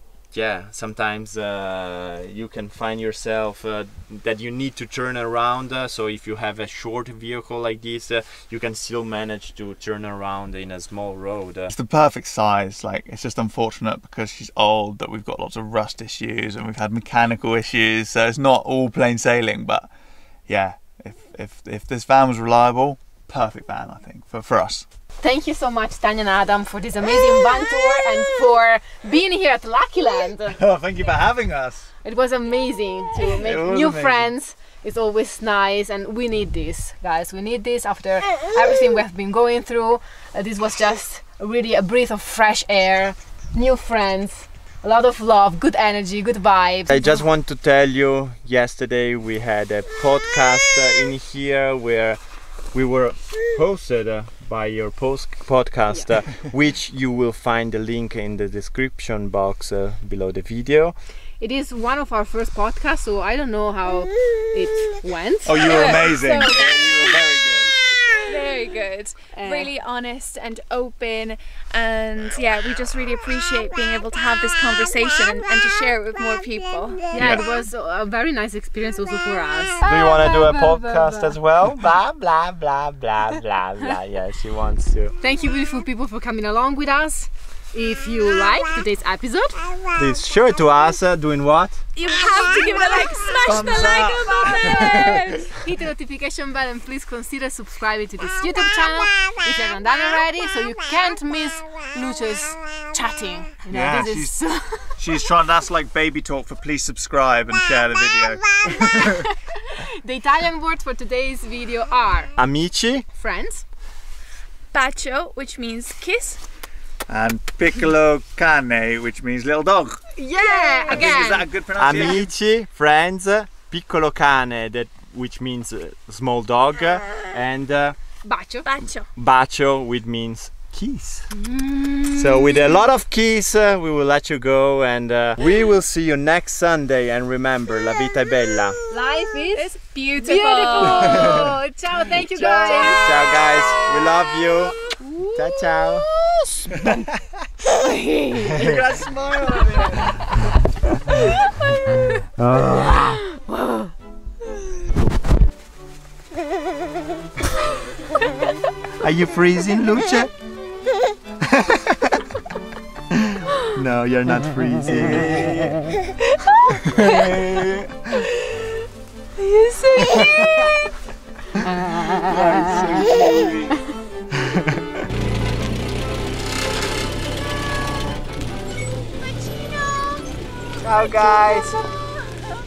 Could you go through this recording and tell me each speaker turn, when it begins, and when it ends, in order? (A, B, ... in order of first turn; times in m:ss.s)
0:00.3-0:11.7 A
0:11.7-0:19.9 B
0:20.5-0:24.8 B
0:25.2-0:30.6 C
0:30.5-0:31.9 B
0:32.0-0:47.2 C
0:33.3-0:34.2 B
0:46.9-1:01.0 A
1:01.4-1:06.6 C
1:05.4-1:06.6 B
1:05.6-1:06.7 D
1:06.2-1:07.7 A
1:08.2-1:17.1 D
1:09.3-1:09.7 C
1:17.1-1:21.4 C
1:17.1-1:17.4 B
1:19.8-1:25.2 A
1:25.2-1:29.8 C
1:30.0-1:31.8 A
1:32.0-1:35.5 D
1:33.4-1:35.2 B
1:35.5-1:45.0 C
1:43.7-1:44.4 B
1:45.0-1:49.2 B
1:48.9-1:52.3 C
1:52.4-1:53.0 A
1:53.1-1:53.6 C
1:54.7-1:56.4 D
1:57.1-2:00.0 B
2:00.2-2:01.4 C
2:00.4-2:01.4 D
2:00.9-2:02.3 B
2:01.8-2:08.0 A
2:08.2-2:08.7 C
2:08.6-2:09.0 D
2:09.1-2:11.3 A
2:11.3-2:12.6 C
2:12.1-2:18.9 A
2:18.9-2:23.7 C
2:19.5-2:21.5 D
2:21.1-2:21.4 A
2:22.3-2:26.1 A
2:22.6-2:23.6 D
2:25.0-2:27.0 C
2:27.7-2:28.5 C
2:28.4-2:30.4 B
2:32.4-2:33.2 A
2:39.0-2:40.3 A
2:41.5-2:42.0 A
2:43.1-2:45.7 A
2:44.8-2:45.8 B
2:46.5-2:47.4 D
2:46.9-2:47.8 A
2:48.4-2:48.7 D
2:49.4-2:50.9 D
2:51.6-2:53.0 C
2:52.3-2:53.7 B
3:00.8-3:01.8 A